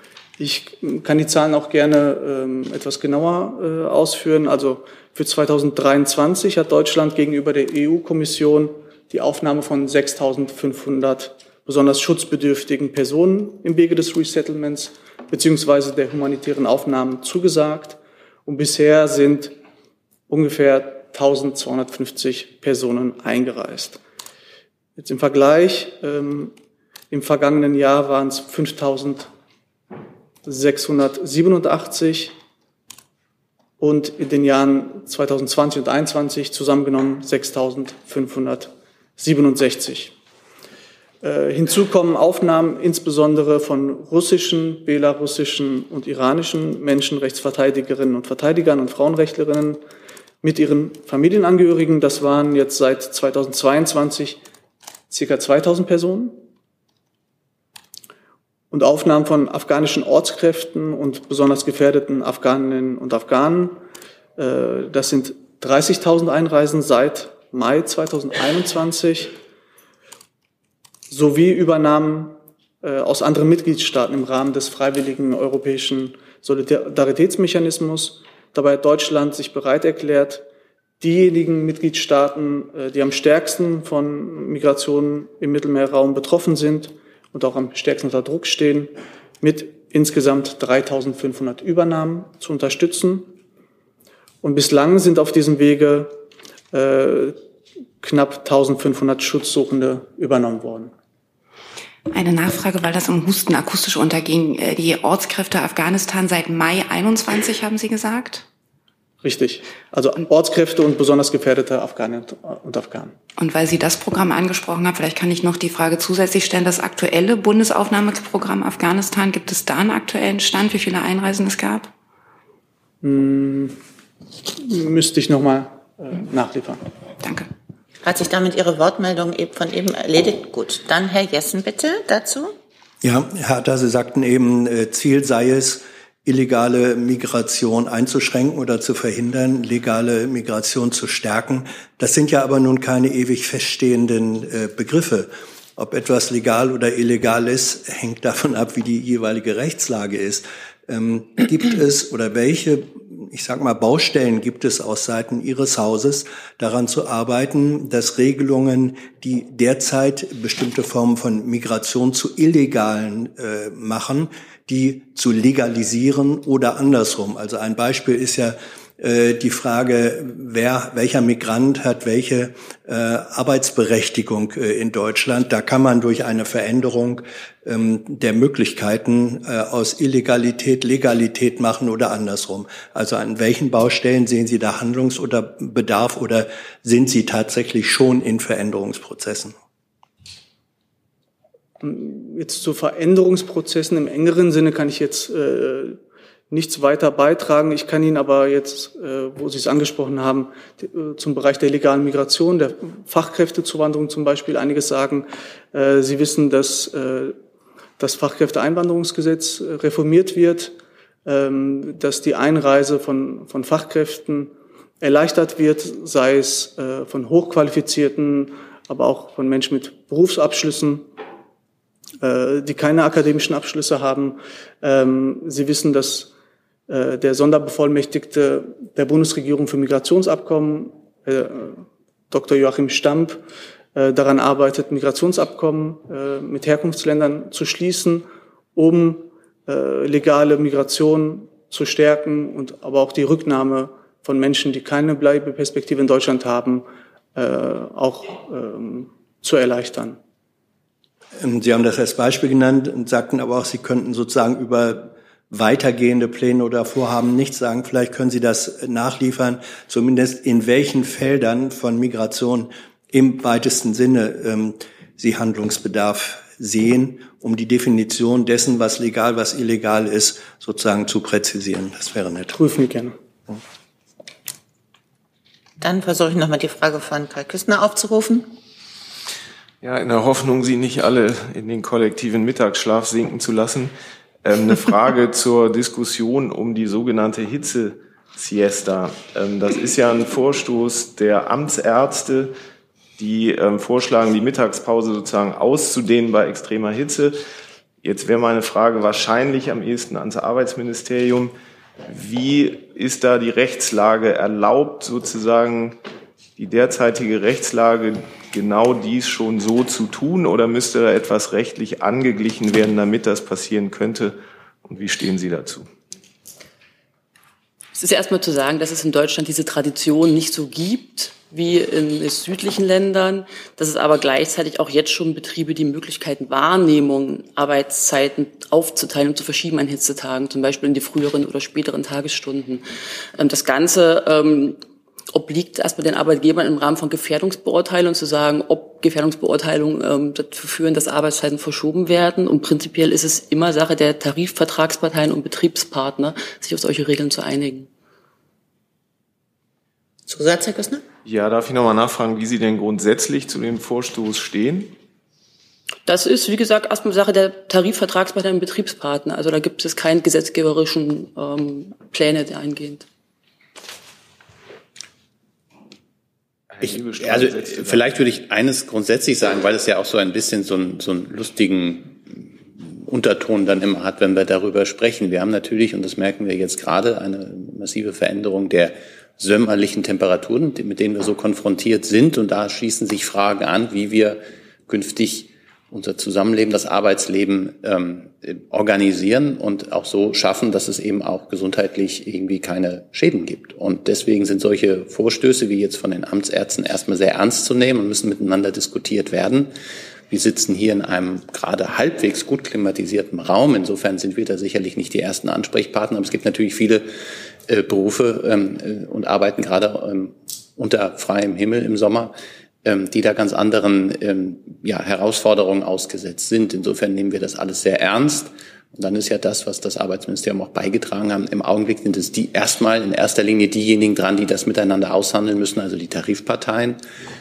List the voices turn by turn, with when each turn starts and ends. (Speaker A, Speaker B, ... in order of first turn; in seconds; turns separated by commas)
Speaker A: 0.4-19.6, Speaker A: 20.3-24.0, Speaker A: 25.0-26.5, Speaker A: 27.1-29.3, Speaker A: 30.4-32.4, Speaker A: 33.8-40.1, Speaker A: 41.2-49.8, Speaker A: 50.4-54.4, Speaker A: 55.1-56.4, Speaker A: 58.7-63.8, Speaker A: 64.4-69.3, Speaker A: 71.1-80.5, Speaker A: 81.0-93.3, Speaker A: 94.4-96.2, Speaker A: 96.7-97.4, Speaker A: 98.0-100.9, Speaker B: 102.1-108.5, Speaker A: 109.2-113.2, Speaker B: 113.4-121.9, Speaker A: 123.0-123.8, Speaker A: 124.5-126.8, Speaker B: 127.2-127.5, Speaker C: 128.0-132.5, Speaker D: 133.0-189.6, Speaker A: 191.8-207.4, Speaker A: 208.0-221.1, Speaker A: 222.2-226.3, Speaker A: 226.9-233.4, Speaker A: 233.9-250.2, Speaker D: 251.4-272.6, Speaker A: 272.5-273.2, Speaker C: 275.8-278.5, Speaker E: 279.8-283.9, Speaker E: 284.4-292.5, Speaker E: 293.2-297.4, Speaker E: 298.0-301.5, Speaker E: 302.1-306.0, Speaker E: 306.6-315.9, Speaker F: 317.9-332.8, Speaker F: 333.4-347.9, Speaker C: 350.3-351.0, Speaker E: 351.2-354.9, Speaker F: 356.1-363.1, Speaker E: 366.7-368.1, Speaker G: 366.8-399.7, Speaker G: 400.3-407.1, Speaker G: 407.7-427.0